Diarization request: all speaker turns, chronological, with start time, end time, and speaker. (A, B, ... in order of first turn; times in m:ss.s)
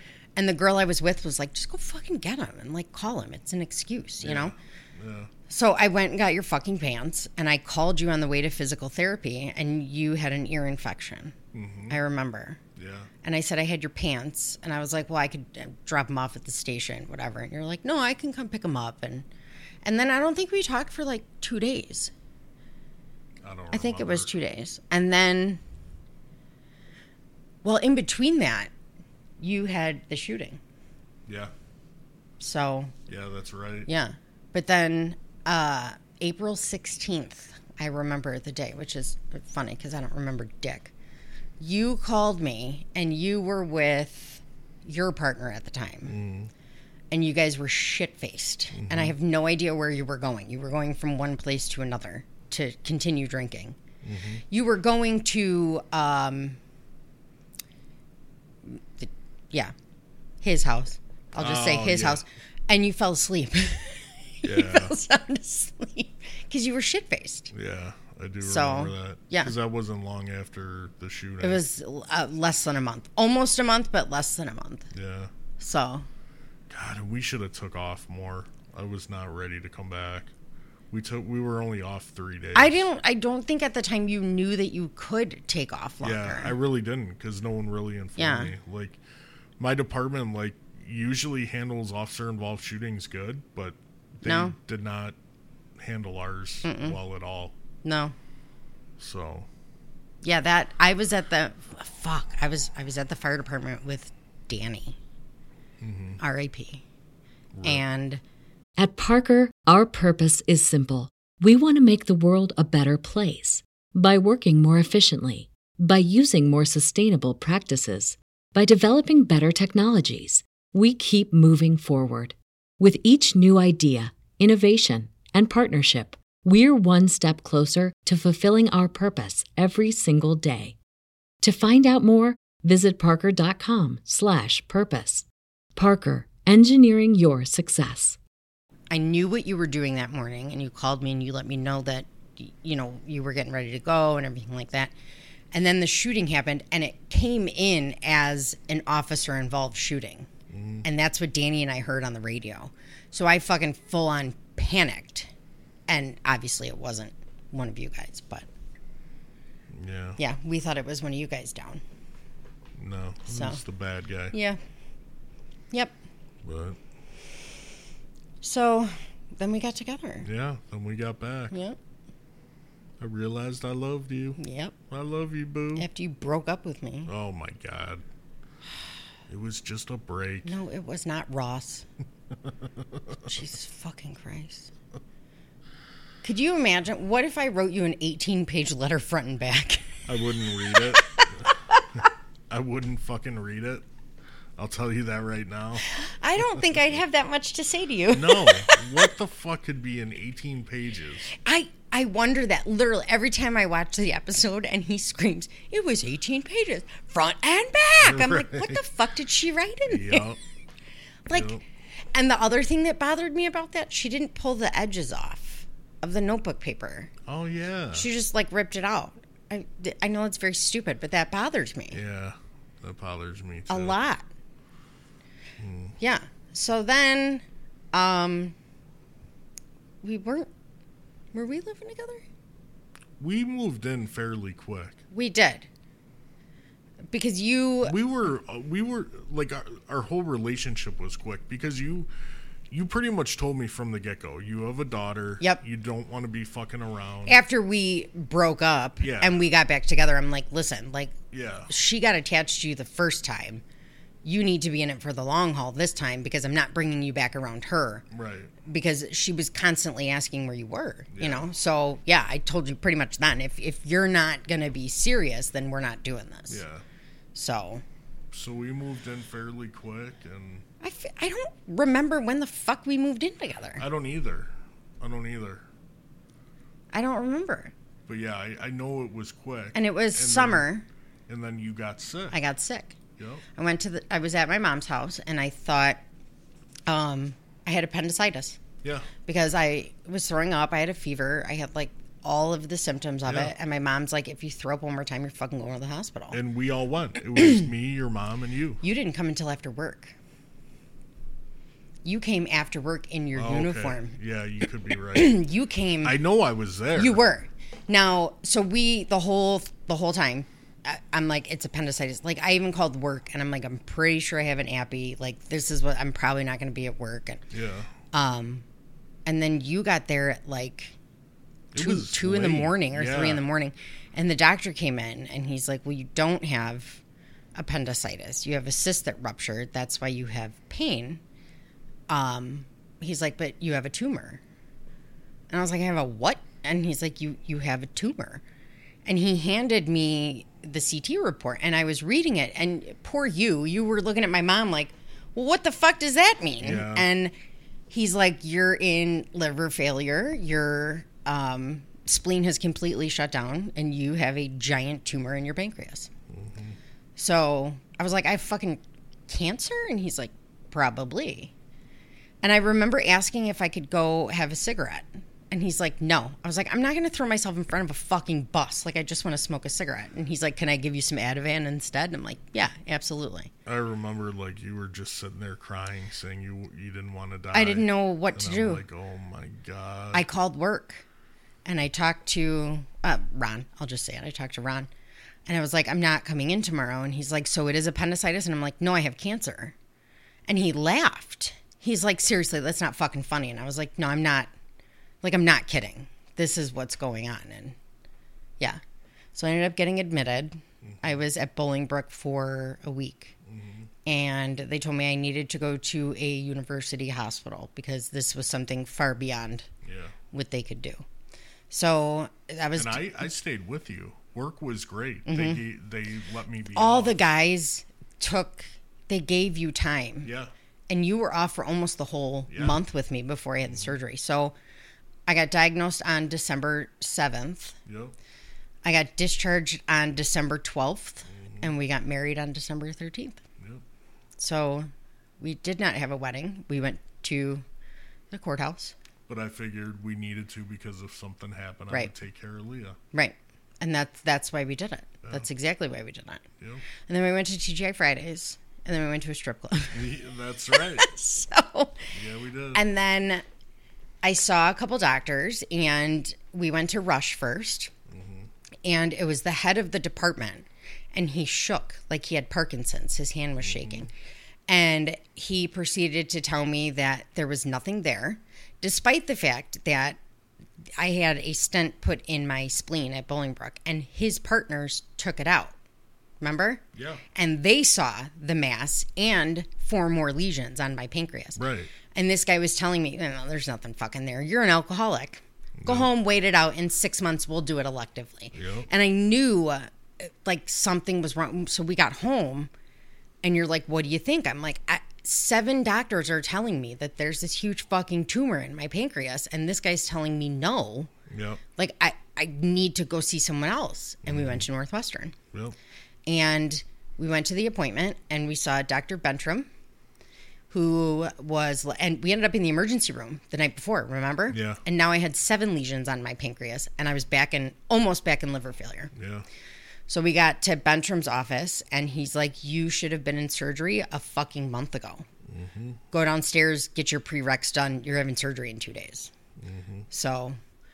0:00.4-0:04.5 A
0:04.2-0:05.3 B
0:05.5-0:11.3 A
0:11.5-0:12.0 B
0:11.9-0:12.6 A
0:12.8-0:13.1 B
0:13.2-0:19.2 A
0:19.8-0:22.1 A
0:23.4-0:24.3 B
0:23.7-0:25.6 A
0:27.6-0:28.7 A
0:29.4-0:30.6 A
0:31.2-0:31.5 B
0:32.4-0:32.9 A
0:33.1-0:33.9 B
0:33.9-0:40.9 A
0:41.6-0:46.2 A
0:46.0-0:46.5 B
0:47.1-0:53.8 A
0:48.7-0:49.1 B
0:54.0-0:54.4 B
0:54.5-0:56.6 A
0:58.6-0:59.7 A
1:00.4-1:07.5 A
1:01.4-1:02.2 B
1:04.4-1:05.0 B
1:07.5-1:11.6 B
1:08.4-1:09.5 A
1:11.4-1:14.9 A
1:14.9-1:15.3 B
1:15.6-1:16.0 A
1:16.7-1:20.3 B
1:20.9-1:22.8 B
1:22.5-1:26.5 A
1:26.0-1:29.0 B
1:28.2-1:28.5 A
1:29.6-1:35.2 B
1:34.2-1:34.5 A
1:35.8-1:37.5 B
1:36.6-1:37.0 A
1:37.8-1:38.1 A
1:39.0-1:39.5 B
1:40.2-1:45.0 A
1:45.8-1:46.2 B
1:46.2-1:46.8 A
1:47.5-1:47.8 B
1:47.6-1:48.2 A
1:48.8-2:10.8 C
2:11.4-2:18.2 C
2:18.9-2:24.9 A
2:25.5-2:30.3 A
2:30.5-2:30.8 B
2:30.8-2:35.3 A
2:35.9-2:38.5 A
2:39.7-2:40.2 B
2:40.2-2:41.8 A
2:42.8-2:44.3 B
2:43.3-2:43.6 A
2:44.3-2:44.6 A
2:46.4-2:46.8 B
2:48.4-2:50.3 A
2:50.2-2:51.6 B
2:51.5-2:51.8 A
2:53.0-2:54.4 B
2:54.4-2:54.7 A
2:54.9-2:55.9 B
2:55.8-2:57.1 A
2:57.1-2:58.0 B
2:59.3-3:00.5 B
3:00.4-3:01.8 A
3:02.4-3:03.0 B
3:03.2-3:04.7 A
3:06.2-3:10.0 A
3:10.1-3:11.5 B
3:10.9-3:11.8 A
3:12.0-3:13.8 B
3:14.6-3:15.8 B
3:15.8-3:19.1 A
3:16.5-3:16.8 B
3:18.1-3:21.3 B
3:21.3-3:30.2 A
3:28.0-3:28.8 B
3:29.9-3:30.4 B
3:31.3-3:31.6 A
3:31.3-3:31.6 B
3:32.1-3:37.1 A
3:37.2-3:38.1 B
3:37.9-3:42.0 A
3:41.9-3:44.0 B
3:43.7-3:44.3 A
3:45.6-3:46.0 B
3:46.0-3:48.5 A
3:50.0-3:50.5 A
3:51.3-3:52.2 A
3:53.2-3:55.0 B
3:55.1-3:55.7 A
3:57.1-3:58.0 A
3:57.8-4:02.1 B
4:02.7-4:07.4 B
4:07.2-4:11.1 A
4:09.0-4:09.4 B
4:11.3-4:11.7 B
4:11.7-4:13.6 A
4:14.2-4:18.0 A
4:18.1-4:18.5 B
4:18.6-4:26.6 A
4:21.1-4:21.5 B
4:26.5-4:26.8 B
4:27.3-4:27.8 A
4:28.3-4:30.6 B
4:30.8-4:33.8 A
4:33.8-4:35.6 B
4:36.9-4:37.7 A
4:38.1-4:40.7 B
4:39.7-4:40.8 A
4:41.3-4:42.4 B
4:42.3-4:43.0 A
4:43.2-4:43.4 B
4:43.5-4:46.0 A
4:46.9-4:48.6 A
4:48.8-4:49.1 B
4:49.2-4:56.4 A
4:53.2-4:53.5 B
4:56.3-4:58.8 B
4:58.8-5:00.2 A
5:02.0-5:04.1 A
5:03.3-5:05.4 B
5:05.1-5:06.2 A
5:06.0-5:07.2 B
5:06.9-5:17.4 A
5:17.5-5:17.9 B
5:18.1-5:18.6 A
5:19.2-5:20.9 A
5:21.7-5:23.4 B
5:21.7-5:27.0 A
5:27.5-5:31.2 A
5:32.1-5:34.4 A
5:35.5-5:38.4 A
5:39.0-5:47.3 A
5:46.6-5:47.1 B
5:47.9-5:56.1 A
5:56.3-5:56.8 B
5:57.2-6:01.5 A
6:02.4-6:13.5 A
6:13.6-6:20.2 B
6:17.5-6:18.8 A
6:20.1-6:21.0 A
6:21.6-6:24.9 A
6:25.5-6:29.7 A
6:30.5-6:34.5 A
6:35.2-6:37.8 A
6:39.3-6:43.3 A
6:40.8-6:41.2 B
6:43.4-6:43.9 B
6:44.0-6:49.7 A
6:49.8-6:50.1 B
6:50.3-6:51.0 A
6:51.7-6:53.2 A
6:52.8-6:57.2 B
6:55.3-6:55.6 A
6:56.7-7:00.3 A
7:00.2-7:00.5 B
7:00.9-7:04.5 A
7:02.5-7:02.8 B
7:05.2-7:07.8 A
7:07.8-7:08.1 B
7:08.8-7:13.4 A
7:11.3-7:11.7 B
7:14.4-7:14.9 A
7:15.4-7:17.6 A
7:18.3-7:18.9 A
7:19.3-7:23.0 B
7:23.1-7:26.4 A
7:27.1-7:30.1 A
7:29.9-7:31.0 B
7:30.7-7:32.1 A
7:32.1-7:32.8 B
7:32.7-7:33.4 A
7:34.2-7:37.9 A
7:38.1-7:38.5 B
7:38.8-7:44.1 A
7:43.6-7:44.1 B
7:44.7-7:50.2 A
7:51.0-7:55.7 A
7:56.4-7:56.8 A
7:56.9-7:57.2 B
7:57.3-8:01.6 A
8:01.6-8:01.9 B
8:02.1-8:12.7 A
8:05.8-8:06.1 B
8:08.5-8:08.9 B
8:13.4-8:21.1 A
8:21.3-8:21.6 B
8:21.8-8:25.3 A
8:24.2-8:24.7 B
8:26.2-8:29.7 A
8:30.7-8:39.1 A
8:34.5-8:34.8 B
8:39.1-8:39.4 B
8:40.1-8:45.2 A
8:45.5-8:46.0 B
8:46.1-8:49.3 A
8:49.6-8:50.1 B
8:50.1-8:50.6 A